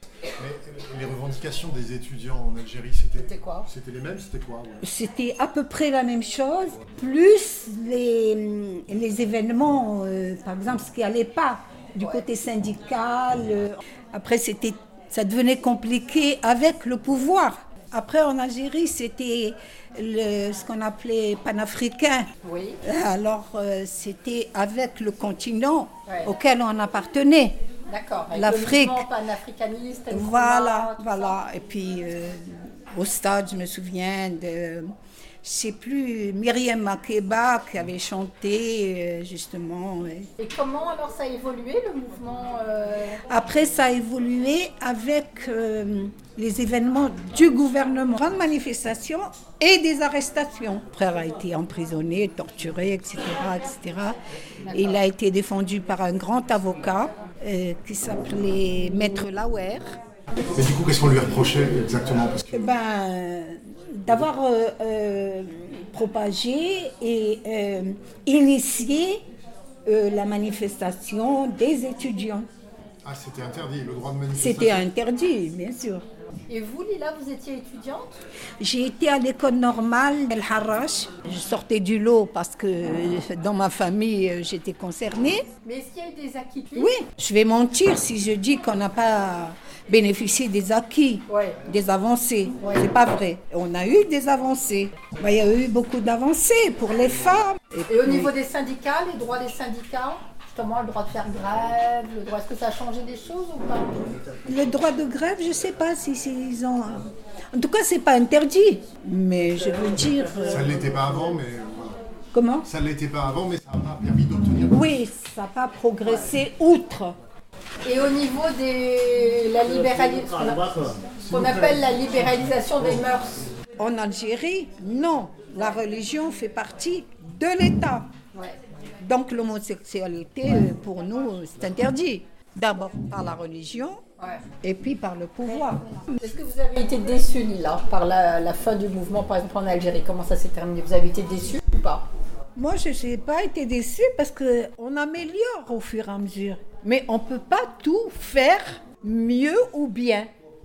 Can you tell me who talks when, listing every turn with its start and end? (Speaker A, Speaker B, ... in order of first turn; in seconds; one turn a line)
Speaker A: 0.4-4.8
Speaker B: 3.2-3.7
Speaker C: 4.8-22.3
Speaker B: 12.0-12.2
Speaker B: 22.4-22.8
Speaker C: 22.8-27.6
Speaker B: 27.9-31.4
Speaker C: 28.3-29.1
Speaker C: 30.1-40.3
Speaker B: 40.4-43.2
Speaker C: 43.3-54.2
Speaker B: 54.7-54.9
Speaker C: 54.7-60.0
Speaker A: 60.5-62.7
Speaker C: 62.5-69.2
Speaker C: 69.9-72.5
Speaker A: 73.0-74.9
Speaker C: 74.3-76.0
Speaker B: 76.5-78.2
Speaker C: 78.6-85.5
Speaker B: 85.7-86.9
Speaker C: 86.8-98.3
Speaker B: 91.3-91.6
Speaker B: 92.6-92.9
Speaker B: 97.9-104.1
Speaker C: 104.5-110.7
Speaker A: 110.5-112.0
Speaker C: 112.3-112.7
Speaker A: 112.7-114.8
Speaker C: 114.6-117.2
Speaker B: 117.8-123.5
Speaker C: 123.8-128.1
Speaker C: 129.0-134.0
Speaker B: 134.2-134.5
Speaker C: 134.6-136.0
Speaker B: 136.0-142.1
Speaker C: 142.6-150.3